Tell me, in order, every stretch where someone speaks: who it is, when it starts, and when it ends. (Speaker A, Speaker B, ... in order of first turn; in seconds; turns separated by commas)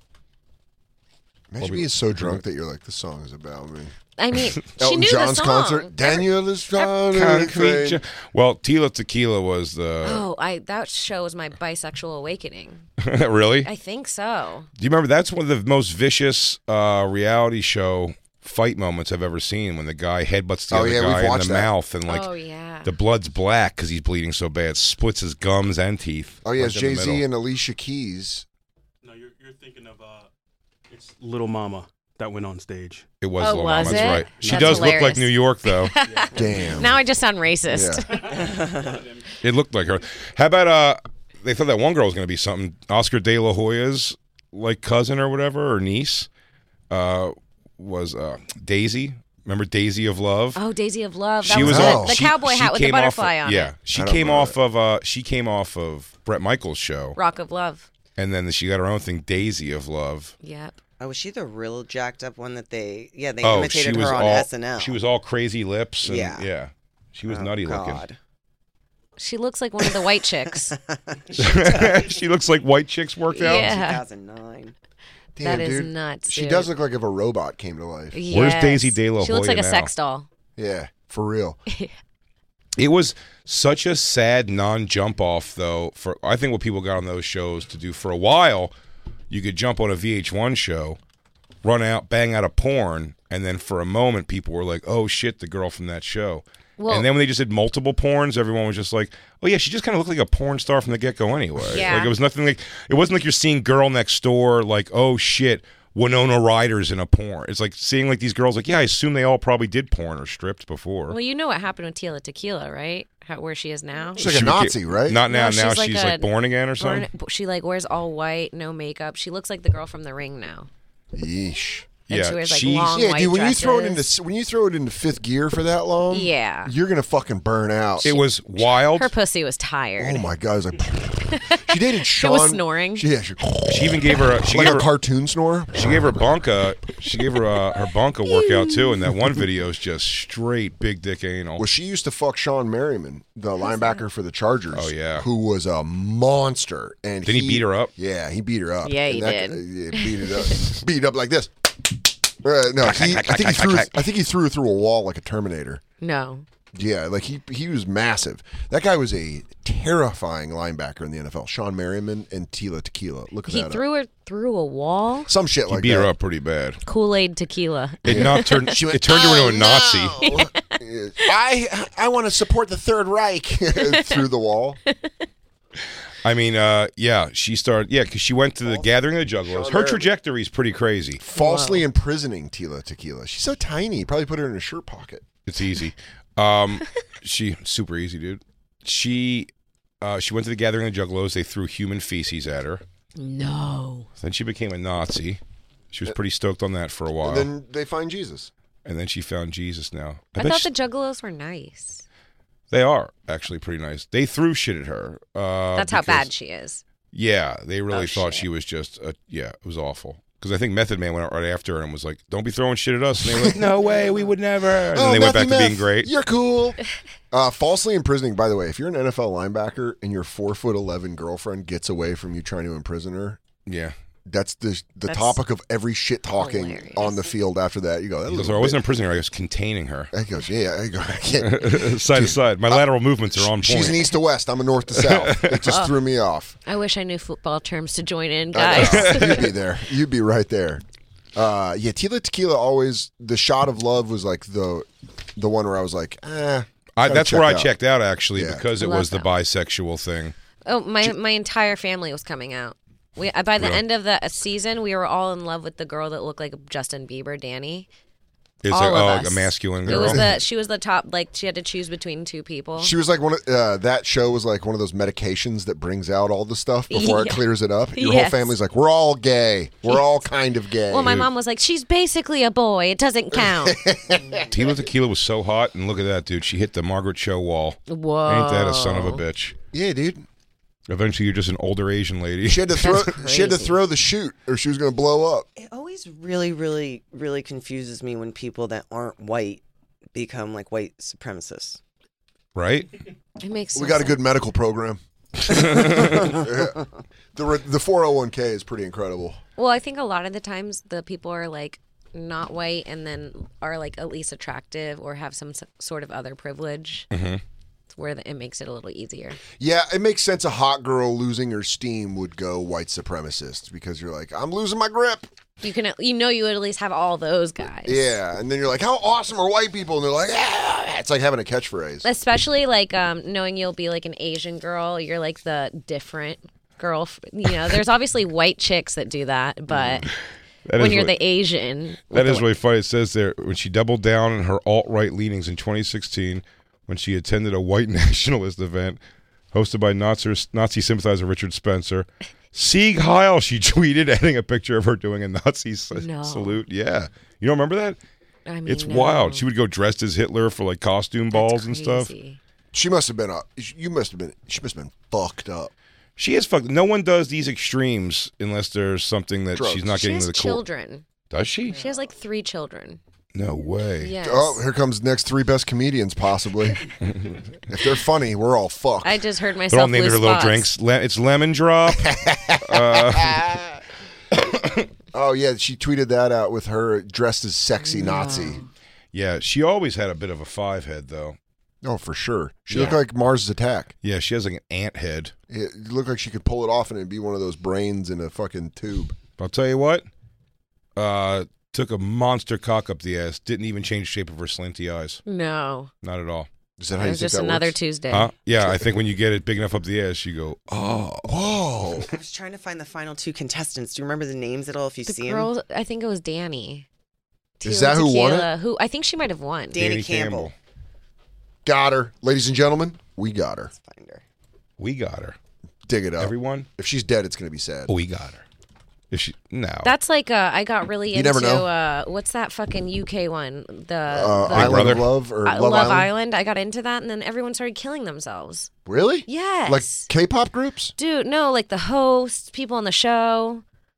Speaker A: 1.5-3.9, Speaker B: 1.6-2.4, Speaker C: 4.2-6.3, Speaker A: 4.8-8.0, Speaker B: 6.8-10.2, Speaker C: 10.0-12.8, Speaker B: 13.0-13.7, Speaker C: 13.6-14.7, Speaker B: 14.8-22.3, Speaker A: 20.7-21.7, Speaker C: 22.1-22.9, Speaker B: 22.8-27.2, Speaker A: 26.4-28.4, Speaker D: 29.0-30.3, Speaker D: 30.9-33.1, Speaker B: 33.2-35.9, Speaker C: 33.4-38.2, Speaker D: 33.8-35.1, Speaker D: 36.0-36.6, Speaker A: 36.3-37.0, Speaker A: 37.7-38.0, Speaker D: 38.1-39.3, Speaker E: 38.3-38.9, Speaker B: 39.4-46.3, Speaker B: 46.9-50.6, Speaker C: 50.5-53.7, Speaker B: 51.4-57.2, Speaker A: 51.5-52.2, Speaker A: 53.9-54.6, Speaker C: 57.2-57.9, Speaker B: 58.2-60.3, Speaker C: 60.4-60.8, Speaker E: 61.0-65.0, Speaker B: 63.4-68.0, Speaker E: 66.0-66.5, Speaker E: 67.3-68.2, Speaker C: 69.2-70.8, Speaker E: 70.7-72.2, Speaker B: 71.4-73.8, Speaker C: 73.3-74.0, Speaker E: 73.4-74.8, Speaker A: 75.4-78.2, Speaker C: 75.4-76.7, Speaker C: 78.1-80.3, Speaker B: 78.3-79.9, Speaker A: 80.6-81.6, Speaker B: 82.8-88.7, Speaker B: 89.3-91.0, Speaker B: 91.6-111.2, Speaker C: 96.8-97.1, Speaker C: 101.7-102.1, Speaker C: 111.1-114.2, Speaker A: 114.2-115.2, Speaker B: 114.2-117.1, Speaker C: 115.3-120.7, Speaker A: 121.1-121.9, Speaker B: 122.1-123.0, Speaker C: 122.1-124.1, Speaker A: 122.9-128.2, Speaker C: 126.1-126.7, Speaker B: 128.0-129.1, Speaker C: 128.0-130.3, Speaker A: 130.0-136.3, Speaker C: 131.3-133.1, Speaker B: 133.7-134.9, Speaker B: 135.7-141.7, Speaker C: 138.3-139.1, Speaker A: 141.6-151.5, Speaker C: 143.6-144.0, Speaker B: 144.7-145.3, Speaker B: 147.2-147.9, Speaker C: 148.8-150.6, Speaker A: 152.4-155.8, Speaker B: 152.8-154.0, Speaker C: 156.0-156.4, Speaker A: 156.7-163.8, Speaker C: 163.4-165.3, Speaker A: 165.3-166.1, Speaker B: 165.7-166.8, Speaker C: 166.8-170.6, Speaker B: 168.0-170.2, Speaker A: 168.1-174.8, Speaker C: 173.8-174.2, Speaker C: 174.9-175.1, Speaker B: 176.2-181.2, Speaker A: 179.5-180.1, Speaker A: 181.2-185.2, Speaker C: 181.3-181.8, Speaker B: 185.4-189.5, Speaker B: 190.0-192.8, Speaker C: 193.2-194.1, Speaker B: 194.2-195.4, Speaker B: 195.9-197.5, Speaker A: 197.2-198.5, Speaker B: 198.8-200.7, Speaker C: 200.4-202.1, Speaker B: 202.7-206.3, Speaker C: 205.8-206.8, Speaker B: 207.1-216.1, Speaker C: 207.9-208.4, Speaker A: 213.2-213.6, Speaker A: 214.9-216.8, Speaker A: 217.3-223.4, Speaker B: 223.7-223.9, Speaker A: 224.3-228.8, Speaker C: 225.1-225.4, Speaker C: 226.4-227.2, Speaker B: 228.3-230.1, Speaker A: 230.1-236.6, Speaker B: 231.4-234.1, Speaker B: 235.0-235.7, Speaker C: 235.7-235.9, Speaker C: 236.6-239.4, Speaker A: 238.5-240.8, Speaker B: 238.8-239.3, Speaker A: 241.3-247.7, Speaker B: 247.0-250.3, Speaker A: 248.3-248.6, Speaker C: 248.8-249.3, Speaker C: 250.7-257.9, Speaker B: 258.6-260.3, Speaker C: 258.7-262.9, Speaker A: 259.9-260.4, Speaker A: 262.8-271.2, Speaker C: 266.9-268.5, Speaker C: 270.9-273.8, Speaker A: 273.3-274.4, Speaker B: 274.5-279.6, Speaker C: 277.9-279.2, Speaker A: 279.7-280.3, Speaker B: 280.9-283.1, Speaker A: 282.4-285.5, Speaker C: 282.8-283.8, Speaker E: 285.6-289.6, Speaker E: 290.1-291.8, Speaker B: 292.6-292.9, Speaker C: 293.4-294.2, Speaker A: 293.7-295.0, Speaker B: 295.5-296.3, Speaker A: 295.6-296.8, Speaker A: 297.4-299.4, Speaker C: 299.6-307.1, Speaker B: 307.1-307.4, Speaker C: 307.9-309.4, Speaker A: 309.6-315.3, Speaker C: 315.6-318.2, Speaker A: 317.9-322.1, Speaker C: 322.0-330.1, Speaker B: 330.7-331.1, Speaker C: 330.8-332.5, Speaker B: 332.1-339.0, Speaker B: 339.5-348.0, Speaker C: 345.9-346.6, Speaker C: 348.4-349.5, Speaker B: 348.7-352.1, Speaker C: 351.3-352.4, Speaker A: 352.7-355.7, Speaker B: 356.2-360.6, Speaker A: 359.6-360.0, Speaker C: 359.9-361.1, Speaker B: 361.3-361.8, Speaker C: 361.7-363.0, Speaker B: 363.3-364.1, Speaker C: 364.0-364.6, Speaker A: 364.2-366.9, Speaker A: 367.7-369.2, Speaker C: 369.0-370.7, Speaker B: 369.7-373.5, Speaker A: 371.9-373.7, Speaker A: 375.1-378.6, Speaker C: 377.8-378.6, Speaker B: 379.1-381.4, Speaker A: 381.8-383.9, Speaker B: 382.7-383.0, Speaker B: 384.0-385.3, Speaker A: 385.5-389.2, Speaker B: 389.4-390.1, Speaker B: 390.9-395.2, Speaker C: 395.3-395.9, Speaker B: 396.0-396.5, Speaker A: 396.8-397.8, Speaker C: 397.0-398.3, Speaker B: 398.1-401.3, Speaker A: 398.6-398.9, Speaker A: 401.2-402.1, Speaker E: 402.1-405.5, Speaker C: 405.1-406.9, Speaker C: 407.6-409.8, Speaker A: 407.6-408.5, Speaker E: 409.7-410.5, Speaker B: 409.7-410.5, Speaker A: 411.6-413.7, Speaker E: 413.7-414.2, Speaker B: 414.8-415.4, Speaker A: 415.9-417.9, Speaker B: 416.2-416.7, Speaker B: 417.9-418.4, Speaker B: 419.1-419.9, Speaker C: 419.8-428.7, Speaker A: 421.1-421.7, Speaker A: 424.1-426.1, Speaker B: 424.5-425.1, Speaker A: 428.9-430.9, Speaker C: 429.3-430.1, Speaker C: 431.0-433.6